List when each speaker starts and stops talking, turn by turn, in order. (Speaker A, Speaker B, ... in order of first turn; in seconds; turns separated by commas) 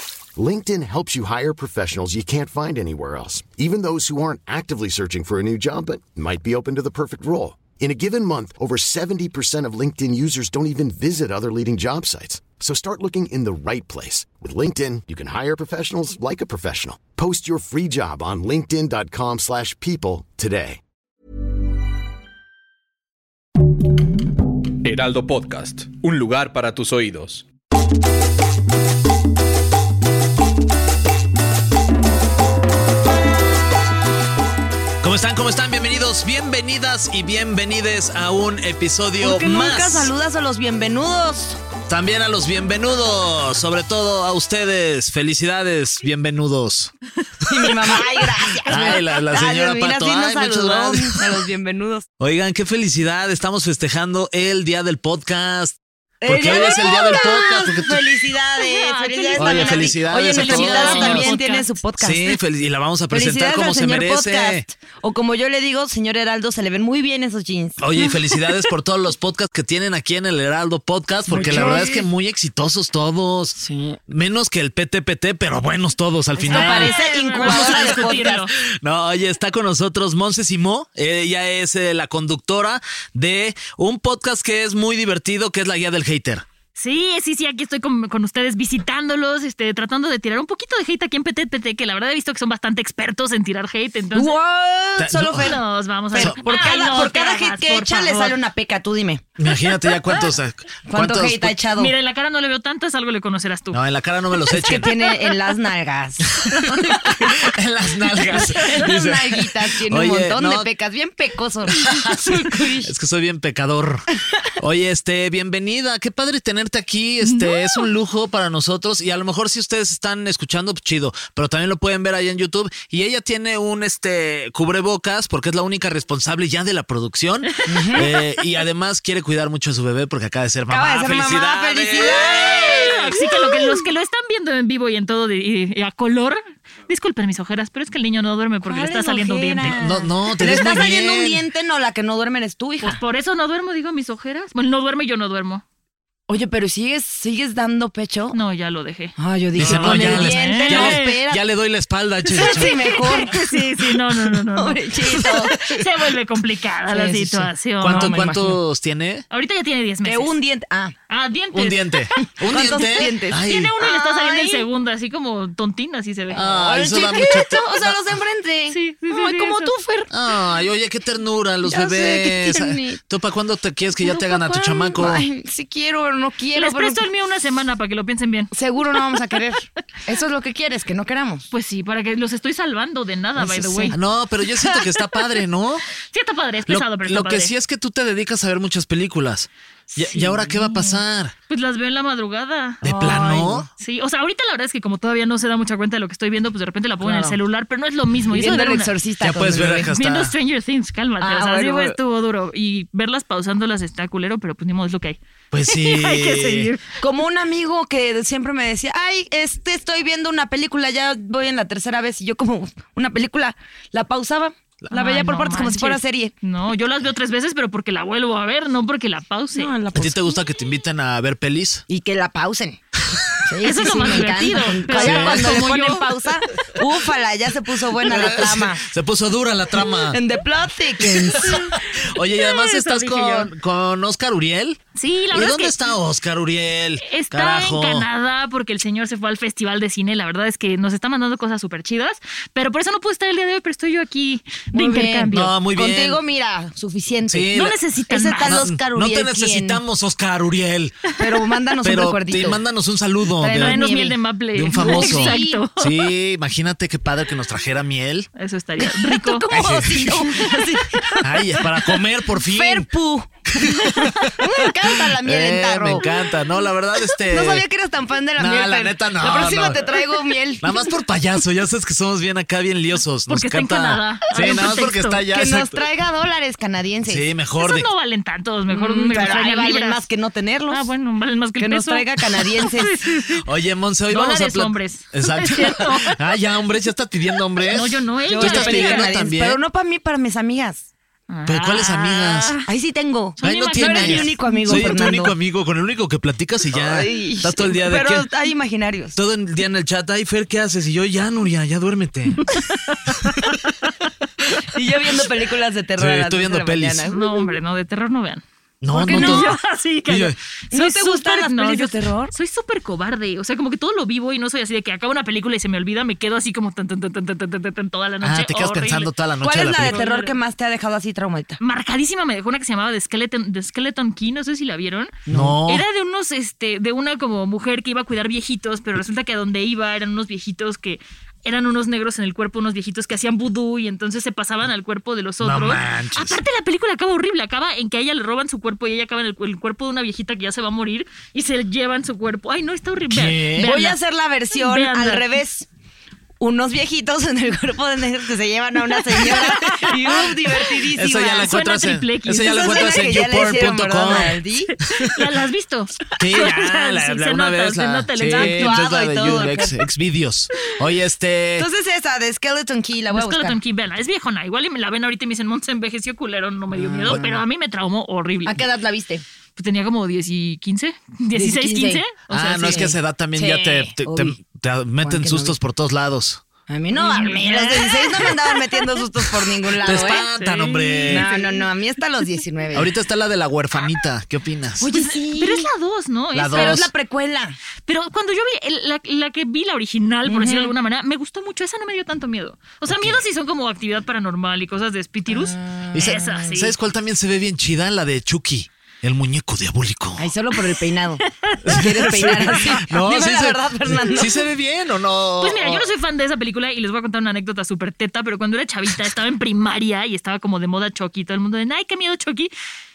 Speaker A: 0.3-20.8, Speaker B: 24.8-27.4, Speaker C: 35.0-40.1, Speaker D: 39.2-41.6, Speaker C: 41.9-46.9, Speaker D: 47.5-52.0, Speaker C: 48.6-51.2, Speaker C: 52.2-58.0, Speaker D: 56.2-62.3, Speaker E: 56.8-57.2, Speaker E: 58.6-61.7, Speaker C: 59.4-61.3, Speaker C: 62.0-64.6, Speaker D: 63.1-67.8, Speaker C: 67.8-86.5, Speaker D: 71.3-72.0, Speaker D: 73.6-74.0, Speaker D: 76.3-78.4, Speaker E: 76.4-78.5, Speaker E: 86.7-94.4, Speaker D: 94.1-99.2, Speaker C: 95.0-95.6, Speaker E: 95.4-98.4, Speaker C: 99.4-101.6, Speaker D: 100.9-101.9, Speaker E: 101.7-103.8, Speaker C: 103.7-105.1, Speaker D: 104.5-106.3, Speaker C: 106.3-110.7, Speaker E: 106.5-107.3, Speaker D: 108.3-112.9, Speaker C: 111.7-133.0, Speaker E: 117.3-117.6, Speaker D: 127.7-128.1, Speaker E: 127.7-128.0, Speaker D: 130.7-133.8, Speaker E: 132.0-140.8, Speaker D: 138.6-143.0, Speaker C: 139.6-141.4, Speaker E: 142.8-145.6, Speaker D: 146.3-148.4, Speaker E: 148.3-151.2, Speaker D: 149.2-151.4, Speaker C: 149.6-153.0, Speaker D: 152.3-153.5, Speaker E: 152.3-158.2, Speaker D: 154.3-155.7, Speaker D: 156.9-158.6, Speaker C: 157.8-159.2, Speaker E: 159.3-160.3, Speaker D: 160.0-160.9, Speaker E: 161.1-162.2, Speaker C: 161.5-163.7, Speaker D: 162.2-164.7, Speaker E: 163.3-167.2, Speaker D: 166.3-170.1, Speaker C: 166.3-168.1, Speaker E: 168.7-169.7, Speaker C: 170.1-175.3, Speaker D: 171.7-173.0, Speaker D: 174.0-177.0, Speaker E: 176.5-179.4, Speaker D: 178.5-181.5, Speaker E: 181.5-184.0, Speaker D: 183.4-184.0, Speaker C: 183.9-185.8, Speaker E: 184.6-185.4, Speaker E: 186.1-187.5, Speaker C: 186.7-191.3, Speaker E: 189.9-198.9, Speaker C: 192.8-193.7, Speaker D: 192.8-193.7, Speaker D: 197.0-197.4, Speaker D: 198.3-199.9, Speaker C: 199.2-200.3, Speaker E: 199.9-207.0, Speaker D: 201.2-202.0, Speaker C: 205.5-206.7, Speaker D: 207.0-216.3, Speaker E: 214.9-219.7, Speaker D: 219.5-220.4, Speaker C: 219.9-221.8, Speaker D: 221.9-222.8, Speaker D: 223.4-228.8, Speaker E: 223.6-226.1, Speaker C: 224.9-226.0, Speaker C: 228.0-230.2, Speaker D: 230.1-231.6, Speaker C: 231.0-238.1, Speaker E: 231.4-233.5, Speaker E: 234.9-235.8, Speaker E: 237.0-245.5, Speaker D: 244.7-247.5, Speaker C: 245.3-246.2, Speaker C: 247.3-247.8, Speaker E: 247.5-248.6, Speaker D: 248.1-249.8, Speaker C: 248.4-251.1, Speaker D: 251.2-252.6, Speaker C: 251.8-253.8, Speaker D: 253.4-254.2, Speaker E: 253.6-255.9, Speaker C: 254.5-258.3, Speaker D: 254.7-255.6, Speaker E: 258.4-259.4, Speaker D: 258.8-261.6, Speaker C: 259.5-260.4, Speaker E: 260.2-261.1, Speaker C: 261.2-262.9, Speaker D: 262.4-263.6, Speaker C: 263.6-267.6, Speaker E: 263.7-264.3, Speaker D: 264.3-266.0, Speaker D: 267.3-270.7, Speaker C: 268.4-270.0, Speaker C: 270.6-275.8, Speaker E: 273.3-275.2, Speaker D: 275.3-277.3, Speaker C: 277.1-277.9, Speaker E: 277.6-280.0, Speaker D: 278.7-280.9, Speaker E: 280.7-283.4, Speaker D: 281.6-282.9, Speaker C: 283.3-289.6, Speaker E: 284.1-286.2, Speaker E: 287.6-289.1, Speaker D: 288.3-290.8, Speaker E: 291.3-292.7, Speaker C: 291.4-292.6, Speaker D: 292.7-295.4, Speaker E: 293.4-294.9, Speaker C: 293.4-298.3, Speaker D: 296.7-299.2, Speaker C: 299.1-302.5, Speaker E: 302.5-304.6, Speaker D: 304.7-307.6, Speaker C: 306.0-307.0, Speaker E: 307.1-308.4, Speaker C: 308.8-309.6, Speaker D: 308.9-309.5, Speaker E: 309.0-319.1, Speaker C: 310.1-310.4, Speaker D: 310.7-312.3, Speaker C: 318.2-320.0, Speaker D: 319.4-321.6, Speaker E: 319.8-320.3, Speaker E: 321.6-344.0, Speaker D: 325.3-325.6, Speaker C: 325.3-325.8, Speaker C: 335.4-336.4, Speaker C: 343.1-343.7, Speaker D: 343.6-345.7, Speaker E: 344.5-345.3, Speaker D: 346.4-351.6, Speaker E: 349.2-349.9, Speaker C: 350.9-354.4, Speaker E: 351.4-353.0, Speaker D: 352.3-354.7, Speaker E: 354.7-358.7, Speaker C: 356.2-361.7, Speaker D: 358.2-359.8, Speaker D: 361.6-363.6, Speaker E: 363.1-368.6, Speaker D: 366.7-367.2, Speaker C: 367.1-367.4, Speaker D: 368.4-369.2, Speaker E: 369.6-372.9, Speaker D: 371.3-372.0, Speaker C: 372.3-376.4, Speaker D: 372.6-374.4, Speaker D: 375.0-375.5, Speaker D: 376.7-380.3, Speaker E: 376.9-379.0, Speaker C: 379.8-381.3, Speaker E: 379.9-381.6, Speaker D: 381.0-382.9, Speaker C: 382.7-384.9, Speaker D: 384.8-385.7, Speaker E: 384.9-386.9, Speaker C: 386.3-386.9, Speaker D: 386.5-387.6, Speaker E: 387.9-396.7, Speaker D: 390.2-390.7, Speaker C: 392.9-393.2, Speaker D: 395.3-396.5, Speaker C: 395.9-400.3, Speaker D: 400.2-404.3, Speaker E: 401.3-402.2, Speaker C: 401.6-405.9, Speaker E: 405.4-412.5